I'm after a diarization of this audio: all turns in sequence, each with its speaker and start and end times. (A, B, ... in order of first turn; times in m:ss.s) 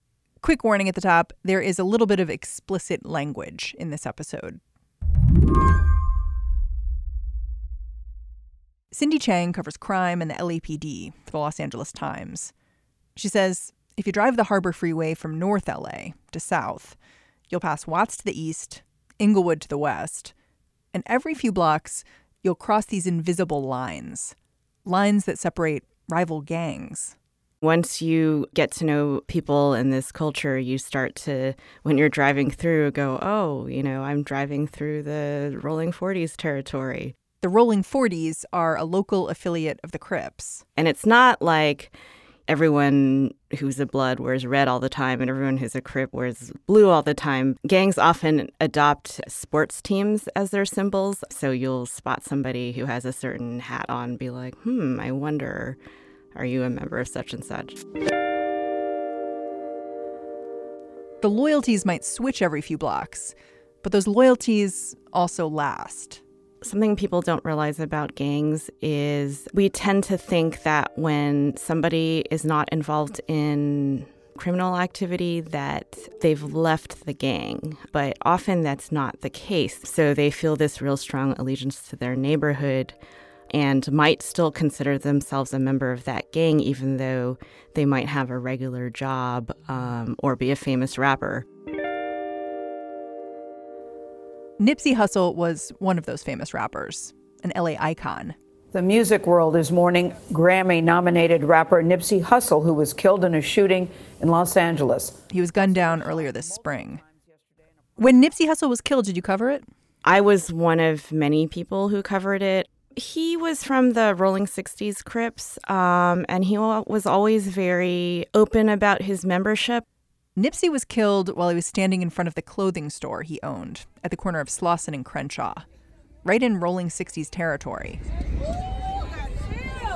0:00.4-0:04.6 A
0:08.9-0:12.5 A
0:13.2-0:17.0 A
0:17.5-0:20.3 A
0:20.9-0:24.3 A
0:24.8-0:27.2 A
0:27.6-0:37.1 B
0:37.4-0:40.6 A
0:40.8-0:41.9 B
0:42.5-0:55.8 B
0:56.3-0:57.8 B
1:01.2-1:06.2 A
1:06.6-1:23.0 B
1:23.5-1:31.4 B
1:34.6-1:38.4 A
1:38.7-1:45.2 C
1:45.3-1:47.0 A
1:48.0-1:49.6 A
1:50.0-1:59.8 B
2:00.4-2:05.6 A
2:06.2-2:08.0 A